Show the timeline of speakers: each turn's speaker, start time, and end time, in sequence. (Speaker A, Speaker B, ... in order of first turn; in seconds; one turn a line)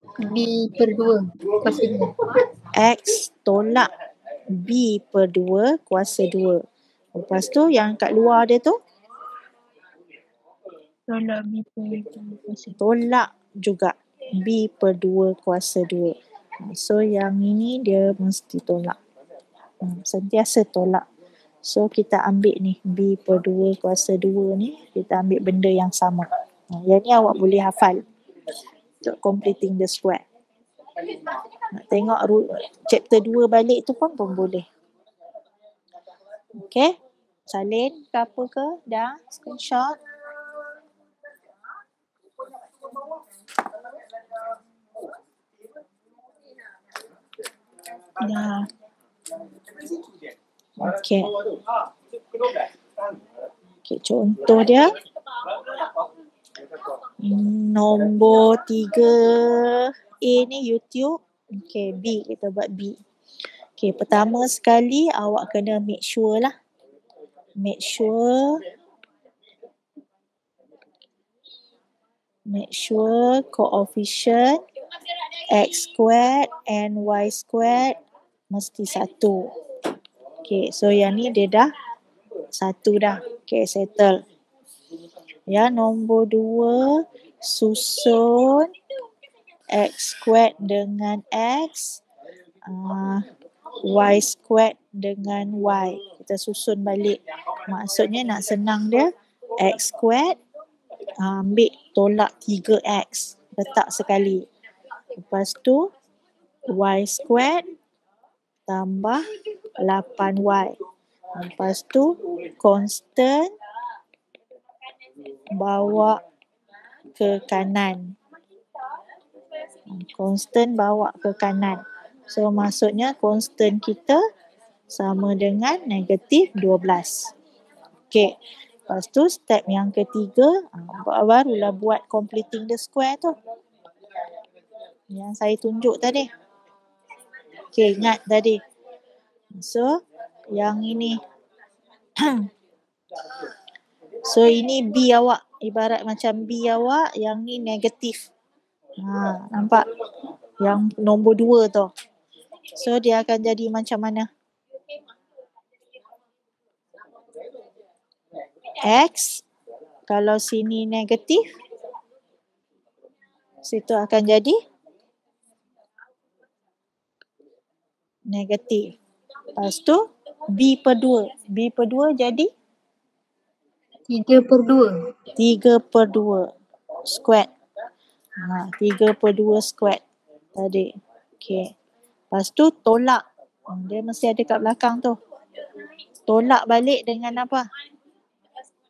Speaker A: 0.2-2.4
Speaker B: 2.7-3.9
Speaker B: 4.5-6.6
Speaker B: 7.1-8.8
Speaker C: 11.1-12.8
Speaker B: 12.8-19.0
Speaker B: 19.8-21.0
Speaker B: 21.6-28.0
Speaker B: 29.0-30.2
Speaker B: 31.7-34.6
Speaker B: 36.5-37.0
Speaker B: 37.5-40.0
Speaker C: 48.2-48.7
Speaker B: 50.8-51.3
Speaker B: 53.9-54.9
Speaker B: 57.2-63.0
Speaker B: 63.8-66.5
Speaker B: 67.6-68.6
Speaker B: 72.5-74.6
Speaker B: 75.5-78.0
Speaker B: 78.5-79.5
Speaker B: 80.4-81.7
Speaker B: 82.5-84.2
Speaker B: 85.5-88.7
Speaker B: 89.7-92.0
Speaker B: 92.6-93.2
Speaker B: 93.8-100.4
Speaker B: 101.2-104.5
Speaker B: 105.1-105.9
Speaker B: 106.7-107.7
Speaker B: 108.7-109.3
Speaker B: 109.8-110.8
Speaker B: 111.3-113.5
Speaker B: 115.5-116.2
Speaker B: 117.2-118.2
Speaker B: 119.9-124.2
Speaker B: 124.9-127.3
Speaker B: 128.1-128.4
Speaker B: 128.9-133.3
Speaker B: 135.1-136.3
Speaker B: 137.7-138.6
Speaker B: 139.5-140.0
Speaker B: 140.5-141.2
Speaker B: 142.2-142.5
Speaker B: 144.2-148.2
Speaker B: 149.0-149.9
Speaker B: 150.6-151.9
Speaker B: 152.8-154.3
Speaker B: 158.8-159.4
Speaker B: 160.1-161.5
Speaker B: 163.6-164.6
Speaker B: 168.3-168.9
Speaker B: 169.6-172.5
Speaker A: 174.1-175.0
Speaker B: 175.4-176.5
Speaker B: 177.0-177.5
Speaker B: 178.4-180.0
Speaker B: 180.6-181.7
Speaker B: 182.3-185.2
Speaker B: 186.3-187.7